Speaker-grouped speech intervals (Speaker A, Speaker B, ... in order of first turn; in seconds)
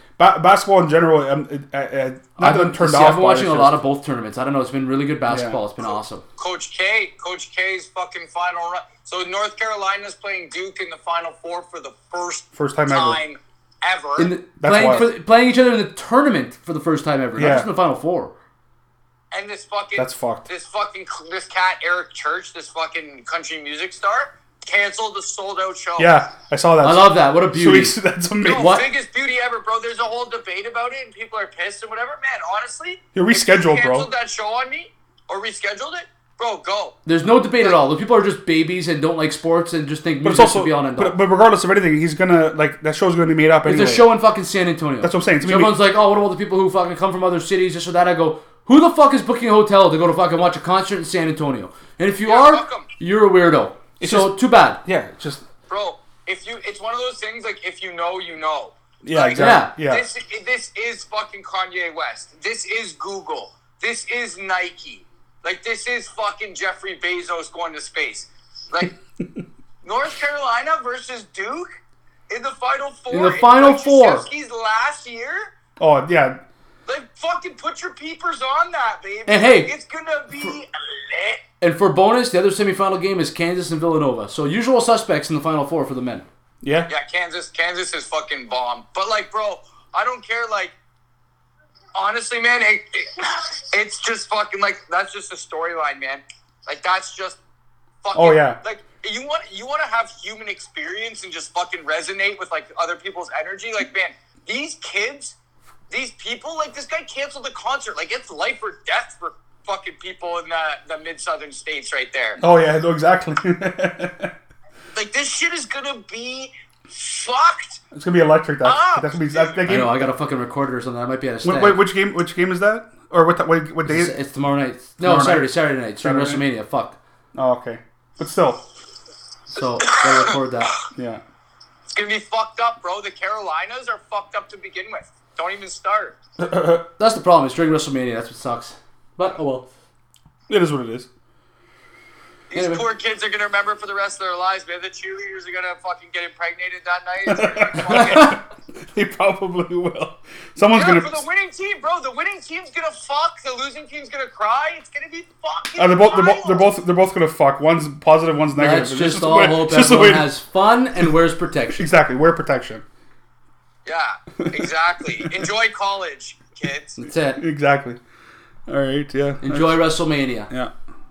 Speaker A: 0.2-3.8, 5.3-5.6, 12.6-13.2, 14.6-15.1, 17.4-17.7, 20.0-20.5, 26.0-28.8, 33.1-34.1, 40.2-44.1, 45.0-45.8, 54.0-55.5, 59.0-60.0, 75.8-76.4, 86.6-86.9, 98.1-98.6, 112.4-114.3, 117.9-120.1, 121.4-124.1, 125.0-125.5, 126.0-126.4, 127.3-128.6, 130.9-131.2, 136.4-136.8, 140.5-141.1, 147.3-151.2, 155.8-160.3, 161.8-162.8, 167.4-168.0, 168.7-169.8
Speaker B: 2.4-6.2, 14.2-18.3, 26.8-28.0, 28.6-28.9, 37.1-41.2, 43.6-54.8, 59.4-59.7, 73.1-74.3, 79.3-79.7, 81.6-86.3, 119.7-121.8, 123.8-127.0, 129.5-130.8, 137.0-139.7, 142.5-142.8, 147.9-148.4, 158.6-161.9, 167.0-167.4, 169.4-170.5
Speaker C: 6.4-14.3, 19.3-26.1, 28.4-37.0, 52.3-52.9, 55.7-68.9, 69.8-71.7, 72.3-75.5, 76.9-81.4, 86.9-90.7, 92.0-97.4, 98.0-105.4, 105.9-112.4, 115.0-117.8, 118.6-119.6, 131.9-136.2, 142.5-148.4, 150.7-156.7, 163.9-167.0